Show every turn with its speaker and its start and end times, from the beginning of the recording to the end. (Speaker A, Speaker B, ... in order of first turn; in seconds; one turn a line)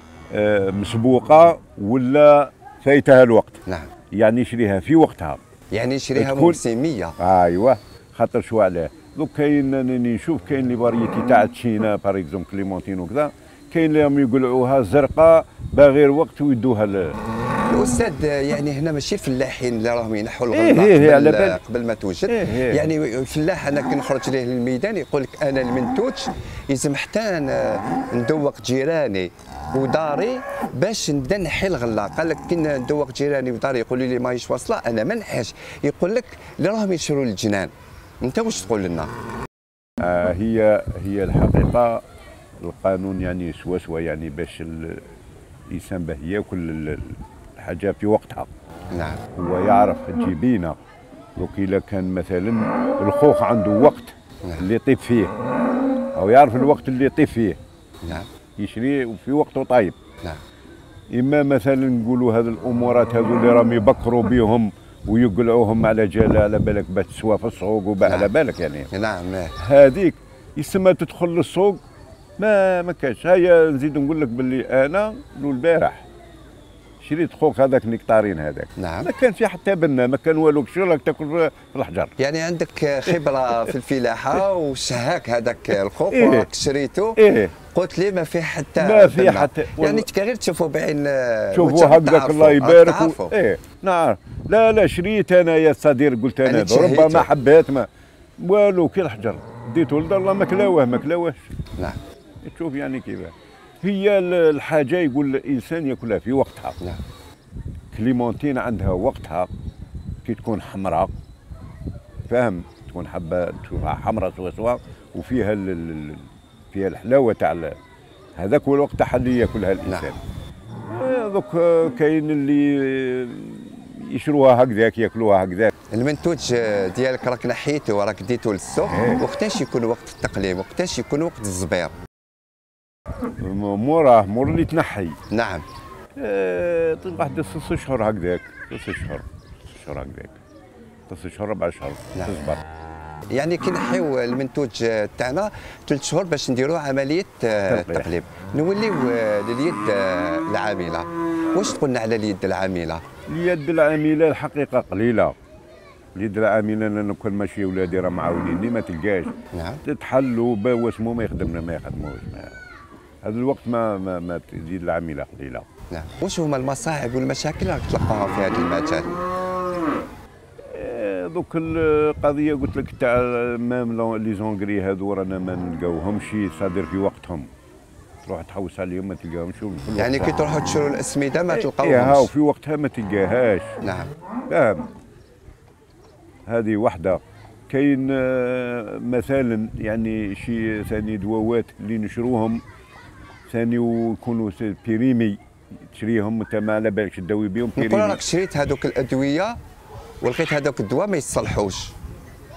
Speaker A: 0.3-5.4
Speaker B: 5.7-7.2
Speaker A: 6.2-6.6
Speaker A: 7.2-17.2
Speaker B: 17.7-39.1
Speaker A: 20.5-21.6
Speaker A: 22.3-22.9
Speaker A: 40.0-42.0
Speaker A: 42.6-45.1
Speaker A: 45.7-48.5
Speaker B: 48.9-49.2
Speaker A: 49.3-50.8
Speaker A: 51.4-55.3
Speaker A: 56.1-57.6
Speaker A: 58.6-60.0
Speaker A: 61.1-68.9
Speaker B: 68.0-68.3
Speaker B: 68.9-69.5
Speaker A: 69.6-71.8
Speaker A: 72.4-76.1
Speaker A: 77.0-82.1
Speaker B: 78.8-79.1
Speaker B: 82.2-93.3
Speaker A: 86.1-86.5
Speaker A: 87.2-87.5
Speaker A: 88.8-90.1
Speaker A: 91.5-101.4
Speaker B: 96.5-97.3
Speaker A: 102.4-106.8
Speaker A: 107.9-109.5
Speaker A: 110.2-111.1
Speaker A: 112.3-117.8
Speaker A: 118.4-120.2
Speaker A: 120.9-125.7
Speaker B: 125.9-131.9
Speaker A: 128.9-129.2
Speaker A: 133.4-135.2
Speaker B: 135.3-135.7
Speaker A: 136.2-140.4
Speaker A: 141.1-142.6
Speaker B: 143.3-153.0
Speaker A: 147.7-148.1
Speaker A: 153.3-155.4
Speaker A: 156.2-162.6
Speaker B: 159.5-159.8
Speaker A: 163.2-165.7
Speaker B: 165.9-169.2
Speaker A: 170.6-177.5
Speaker A: 178.2-180.4
Speaker B: 180.0-182.3
Speaker A: 181.5-183.8
Speaker B: 183.8-184.1
Speaker A: 184.5-184.9
Speaker A: 186.5-192.6
Speaker A: 193.5-195.4
Speaker A: 195.9-198.2
Speaker B: 197.8-199.6
Speaker B: 200.2-201.9